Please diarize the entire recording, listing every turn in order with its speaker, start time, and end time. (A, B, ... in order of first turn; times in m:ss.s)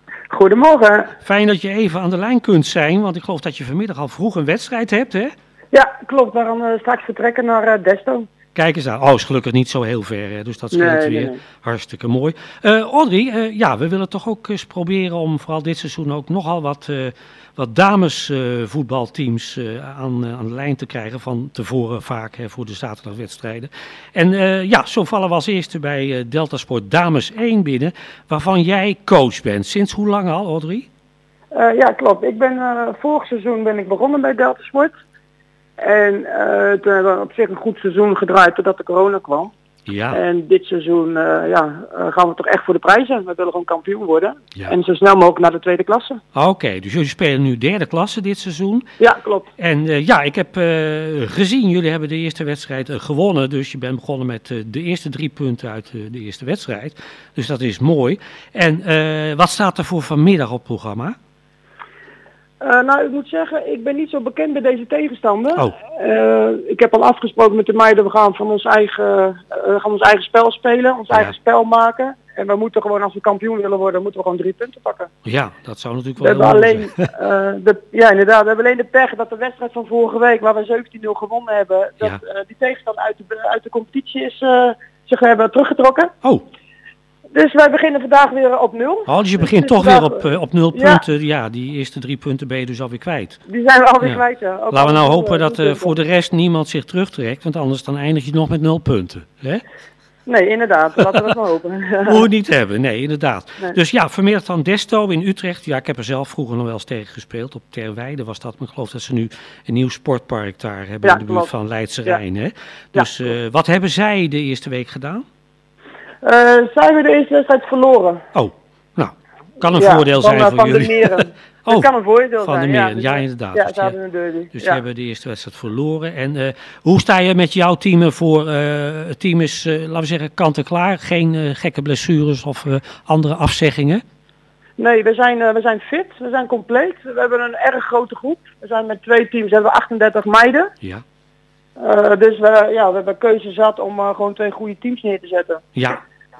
0:00.3-0:01.1 A
0:01.2-0:05.3 B
0:05.7-0:08.3 A
0:08.5-0:30.9 B
0:10.7-0:11.4 A
0:31.5-0:34.9 A
0:35.8-0:39.5 A
0:39.9-0:40.2 B
0:40.1-0:46.2 A
0:46.3-0:48.9 B
0:49.0-0:49.5 A
0:49.6-1:01.1 B
1:02.6-1:15.1 A
1:15.2-1:17.1 B
1:16.2-1:26.1 A
1:27.3-1:31.0 A
1:29.1-1:33.4 B
1:33.5-1:36.0 A
1:34.7-1:39.6 B
1:40.2-1:42.2 A
1:42.1-1:55.2 B
1:51.0-1:51.5 A
1:56.2-1:58.2 A
1:58.3-2:01.9 B
1:59.8-2:04.8 A
2:02.4-2:03.9 B
2:04.5-2:14.0 B
2:14.8-2:20.7 A
2:21.8-2:25.6 A
2:25.8-2:26.0 B